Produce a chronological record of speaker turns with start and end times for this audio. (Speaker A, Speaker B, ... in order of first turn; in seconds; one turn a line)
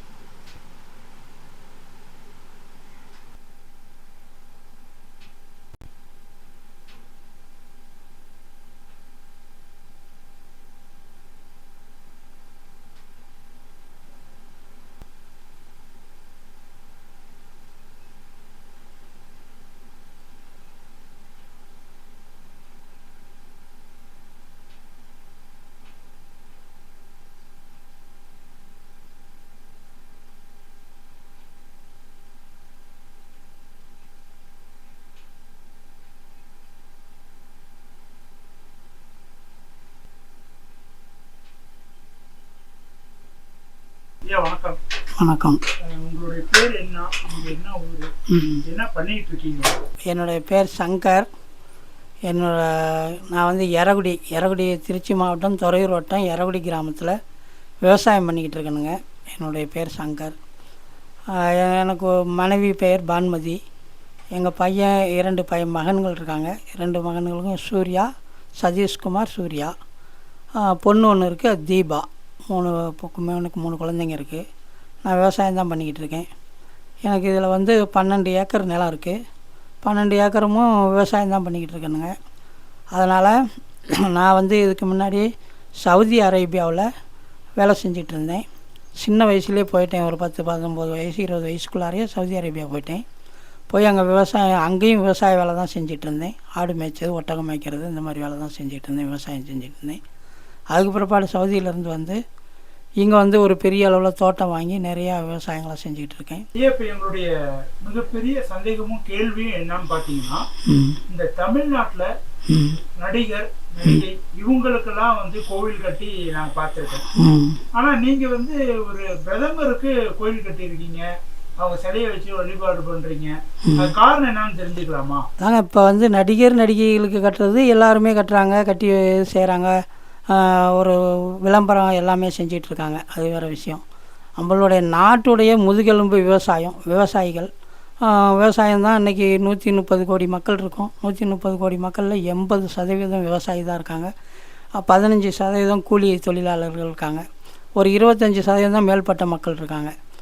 Speaker A: 44.3-44.8
Speaker B: 45.2-45.6
Speaker A: 45.8-48.1
Speaker B: 48.3-48.6
Speaker A: 48.6-49.8
Speaker B: 50.1-51.3
Speaker B: 52.3-57.2
Speaker B: 57.8-60.4
Speaker B: 61.3-63.6
Speaker B: 64.3-68.1
Speaker B: 68.6-69.7
Speaker B: 70.6-74.4
Speaker B: 75.0-76.3
Speaker B: 77.0-79.2
Speaker B: 79.8-82.1
Speaker B: 82.9-83.4
Speaker B: 84.0-85.3
Speaker B: 85.8-86.9
Speaker B: 87.6-88.4
Speaker B: 89.0-93.0
Speaker B: 93.7-100.0
Speaker B: 100.7-102.2
Speaker B: 103.0-106.5
Speaker A: 106.5-110.5
Speaker B: 110.6-111.0
Speaker A: 111.1-112.1
Speaker B: 112.5-112.8
Speaker A: 113.0-117.1
Speaker B: 117.1-117.6
Speaker A: 117.7-121.1
Speaker A: 121.6-125.2
Speaker B: 125.4-133.8
Speaker B: 134.4-137.5
Speaker B: 138.0-144.1
Speaker B: 144.8-147.2
Speaker B: 147.8-149.9